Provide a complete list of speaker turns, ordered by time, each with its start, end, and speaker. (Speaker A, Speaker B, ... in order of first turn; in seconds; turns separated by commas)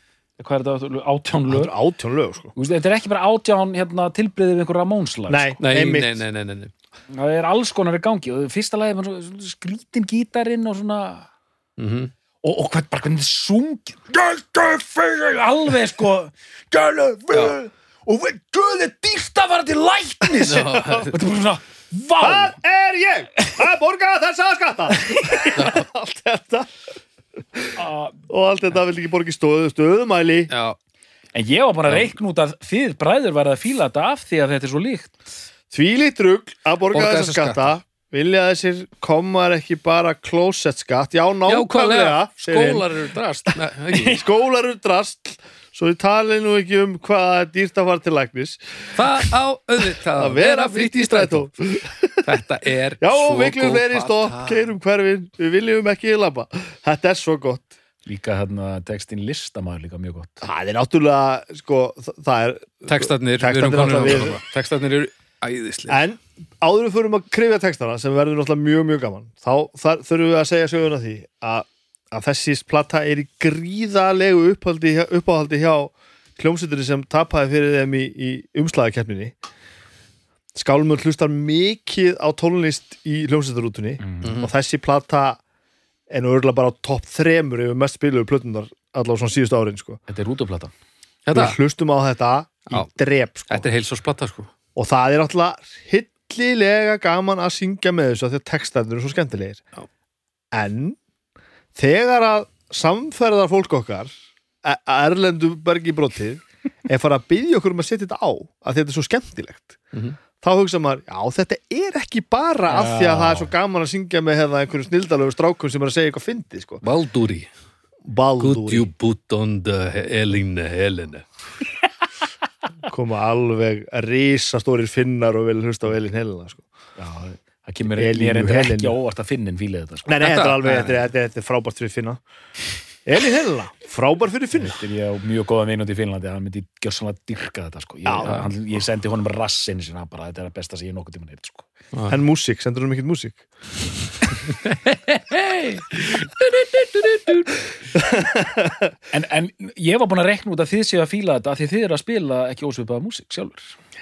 Speaker A: 0.4-1.7, Speaker B: 1.5-2.5, Speaker A: 2.5-5.6, Speaker B: 5.3-6.2, Speaker C: 5.6-6.7, Speaker A: 7.1-11.3, Speaker C: 11.8-12.1, Speaker A: 12.4-22.6, Speaker C: 20.4-21.1, Speaker B: 22.2-26.7, Speaker A: 25.0-25.5, Speaker C: 25.5-25.9, Speaker A: 27.8-28.2, Speaker B: 28.3-30.5, Speaker C: 30.5-30.8, Speaker A: 31.3-35.3, Speaker B: 35.7-42.9, Speaker C: 36.9-37.7, Speaker C: 41.5-44.2, Speaker B: 43.5-49.3, Speaker C: 48.9-51.5, Speaker B: 50.1-52.4, Speaker C: 52.2-54.6, Speaker B: 53.0-57.7, Speaker A: 58.0-60.4, Speaker B: 60.4-64.4, Speaker C: 62.9-66.0, Speaker B: 65.9-79.3, Speaker B: 80.5-85.4, Speaker A: 84.0-84.4, Speaker C: 84.2-84.5, Speaker B: 86.1-90.0, Speaker A: 90.1-90.7, Speaker C: 91.2-91.6, Speaker B: 91.3-93.7, Speaker C: 93.5-94.5, Speaker B: 94.7-99.6, Speaker B: 100.5-101.0, Speaker B: 101.7-104.1, Speaker B: 104.6-109.8, Speaker B: 110.4-116.8, Speaker A: 112.7-113.5, Speaker C: 116.8-117.5, Speaker B: 118.0-118.9, Speaker C: 118.4-121.2, Speaker B: 122.9-126.6, Speaker A: 127.0-131.0, Speaker B: 127.9-128.9, Speaker B: 130.1-132.2, Speaker C: 130.2-130.7, Speaker B: 133.1-134.8, Speaker A: 134.6-141.7, Speaker B: 138.1-138.4, Speaker B: 142.1-143.4, Speaker C: 145.2-147.4, Speaker B: 147.9-148.9, Speaker A: 149.1-153.7